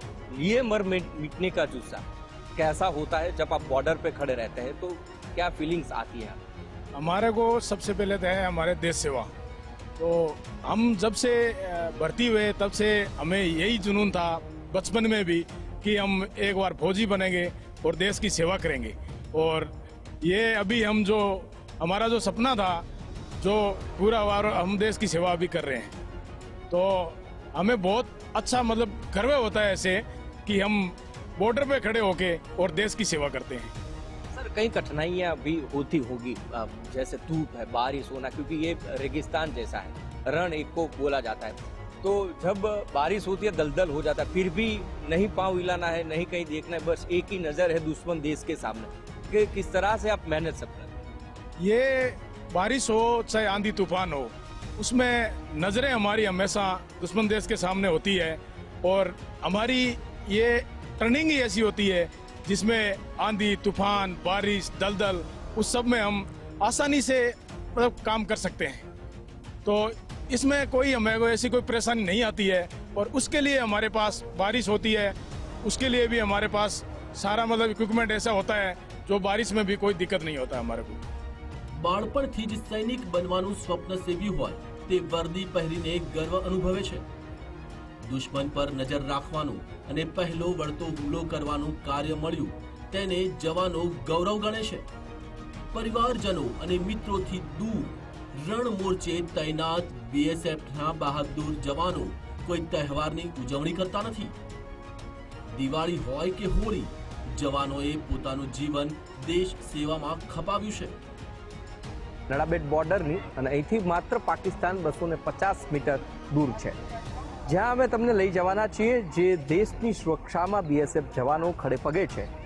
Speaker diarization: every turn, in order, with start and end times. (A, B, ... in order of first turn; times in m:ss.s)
0:00.3-0:02.0 A
0:02.6-0:06.4 A
0:06.9-0:09.3 B
0:10.0-0:19.7 B
0:20.2-0:22.8 B
0:23.4-0:25.9 B
0:26.7-0:33.7 B
0:34.3-0:50.9 A
0:51.6-1:08.8 B
1:09.6-1:21.0 B
1:21.7-1:27.0 C
1:28.0-1:34.8 C
1:35.7-1:44.3 C
1:45.5-1:50.9 C
1:52.3-1:56.8 A
1:57.4-2:02.3 A